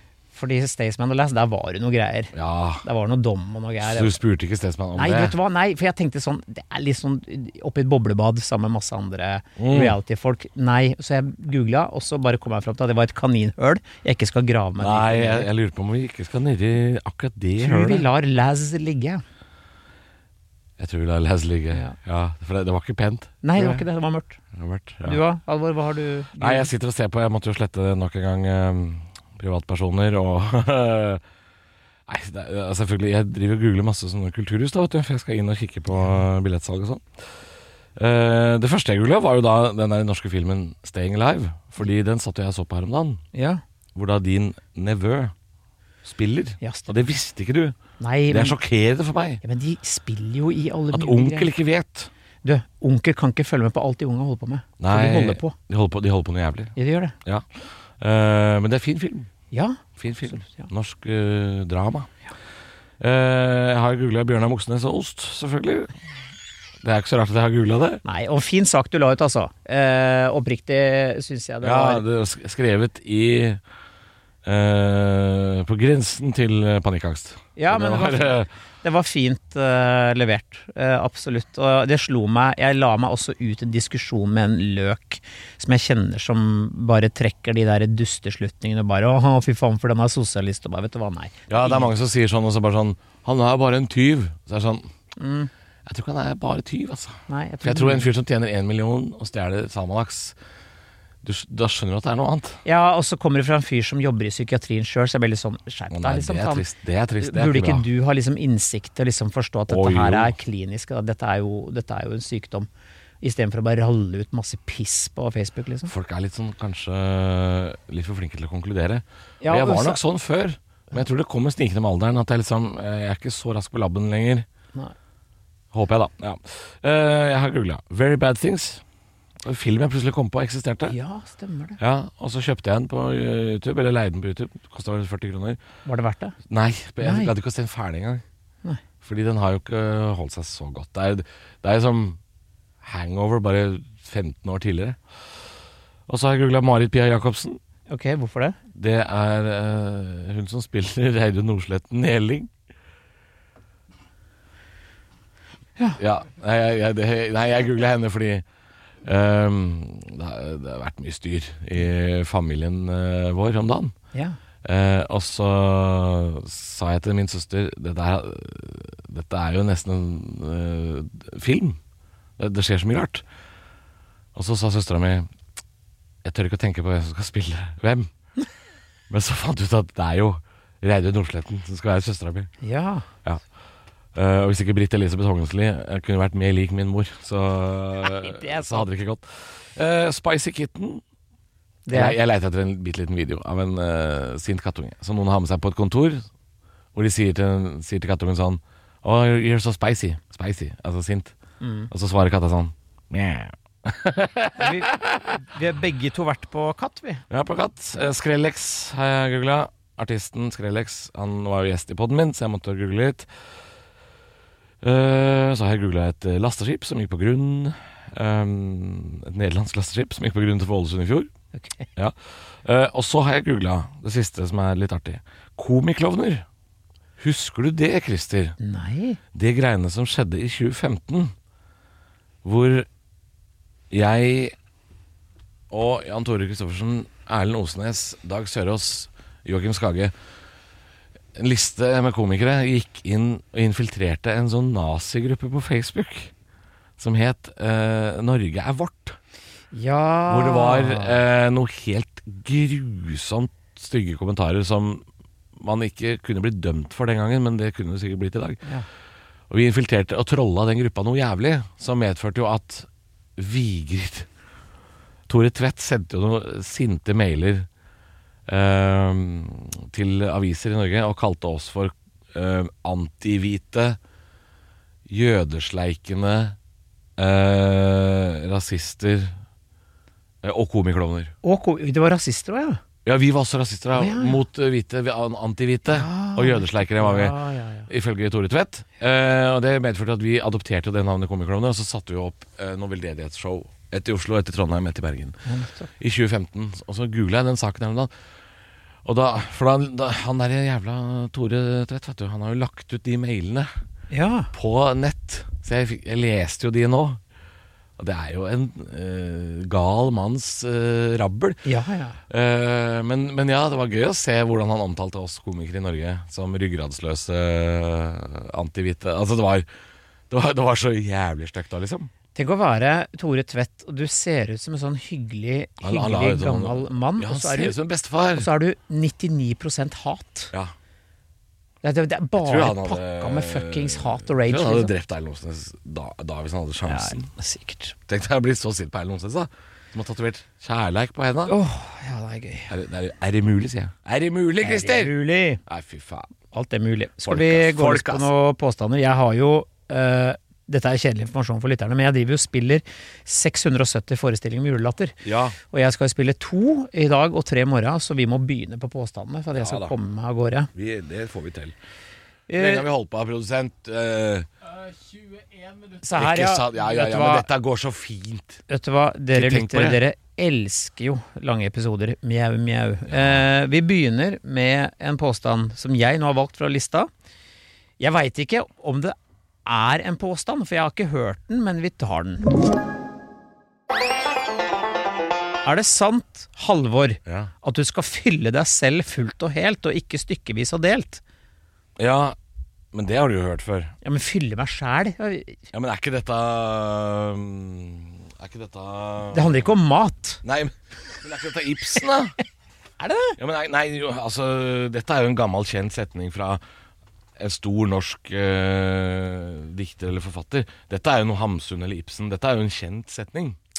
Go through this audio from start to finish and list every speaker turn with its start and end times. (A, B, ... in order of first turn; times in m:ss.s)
0:00.3-0:04.2 A
0:02.3-0:02.8 B
0:03.8-0:05.4 B
0:05.0-0:15.5 A
0:09.6-0:10.0 B
0:14.8-0:18.1 B
0:17.6-0:19.2 A
0:20.8-0:23.8 B
0:23.4-0:24.4 A
0:24.5-0:25.2 B
0:25.0-0:26.7 A
0:26.4-0:31.2 B
0:32.1-0:37.0 B
0:38.0-0:43.2 B
0:43.3-0:43.6 A
0:43.9-0:45.3 B
0:46.0-0:47.8 B
0:46.6-0:47.0 A
0:48.0-0:48.6 A
0:48.3-0:49.4 B
0:49.4-0:51.5 A
0:50.9-0:52.1 B
0:52.4-0:55.5 A
0:54.8-0:57.4 B
0:56.8-0:57.1 A
0:58.0-0:59.3 B
0:59.5-1:00.7 A
1:00.0-1:02.1 B
1:03.0-1:05.9 B
1:06.8-1:08.0 B
1:08.0-1:12.0 A
1:11.6-1:13.6 B
1:14.4-1:18.5 B
1:17.6-1:31.9 A
1:31.5-1:34.9 B
1:35.2-1:35.5 A
1:35.8-1:40.4 B
1:37.3-1:38.1 A
1:41.2-1:42.6 B
1:42.6-1:46.6 A
1:45.9-1:47.8 B
1:47.2-1:52.7 A
1:49.7-1:50.3 B
1:53.2-1:55.9 A
1:55.9-2:04.4 B
1:59.4-2:00.0 A
2:05.7-2:08.8 B
2:09.4-2:11.0 B
2:10.8-2:11.8 A
2:11.8-2:15.6 B
2:15.8-2:16.3 A
2:16.5-2:18.2 B
2:17.0-2:17.3 A
2:19.0-2:22.2 B
2:22.8-2:25.0 B
2:26.1-2:27.6 B
2:27.9-2:28.6 A
2:28.7-2:32.5 B
2:36.0-2:38.4 B
2:39.0-2:43.9 B
2:44.6-2:51.8 B
2:52.4-2:53.2 B
2:54.3-2:55.3 B
2:56.2-2:58.1 B
2:59.1-3:02.5 B
3:02.6-3:03.0 A
3:04.1-3:11.0 B
3:08.0-3:08.8 A
3:11.8-3:12.2 A
3:11.9-3:16.2 B
3:16.9-3:21.3 B
3:21.6-3:21.9 A
3:21.9-3:25.4 B
3:24.6-3:27.2 A
3:27.3-3:33.3 B
3:34.8-3:41.3 B
3:41.5-3:41.9 A
3:42.0-3:46.4 B
3:47.2-3:48.6 B
3:48.6-3:49.2 A
3:49.3-3:51.3 B
3:52.4-3:52.9 B
3:53.9-3:54.5 B
3:55.7-4:00.1 B
4:01.3-4:06.3 B
4:07.0-4:09.2 B
4:09.7-4:11.2 A
4:10.3-4:15.0 B
4:15.6-4:18.6 B
4:19.5-4:24.3 B
4:25.3-4:27.7 B
4:28.5-4:34.0 B
4:35.1-4:36.6 B
4:37.2-4:39.4 B
4:40.4-4:41.3 B
4:41.4-4:42.8 A
4:43.0-4:55.4 B
4:44.0-4:44.4 A
4:45.9-4:47.9 A
4:55.4-4:55.9 A
4:56.0-4:58.1 B
4:59.0-5:03.7 B
5:04.1-5:04.5 A
5:04.5-5:07.2 B
5:08.0-5:11.6 B
5:11.6-5:12.2 A
5:12.3-5:19.7 B
5:20.3-5:22.1 B
5:22.3-5:27.8 A
5:25.8-5:28.5 B
5:28.3-5:30.5 A
5:31.8-5:34.9 A
5:32.4-5:37.3 B
5:36.8-5:37.9 A
5:38.1-5:41.6 B
5:41.5-5:42.7 A
5:42.7-5:45.1 B
5:44.6-5:45.6 A
5:45.6-5:46.3 B
5:46.5-6:00.7 A
5:47.2-5:48.3 B
5:55.2-5:55.6 B
5:59.5-5:59.9 B
6:00.7-6:01.7 B
6:02.5-6:02.8 A
6:02.5-6:04.5 B
6:06.0-6:07.5 A
6:06.1-6:08.6 B
6:08.7-6:17.1 A
6:09.3-6:10.0 B
6:13.1-6:13.4 B
6:18.0-6:19.1 A
6:19.6-6:22.5 A
6:25.6-6:31.2 A
6:27.2-6:27.5 B
6:32.0-6:32.4 B
6:32.9-6:33.9 B
6:34.0-6:35.6 A
6:35.7-6:39.7 B
6:39.3-6:40.4 A
6:40.4-6:42.3 B
6:43.0-6:43.4 A
6:43.4-6:46.6 B
6:47.4-6:53.6 B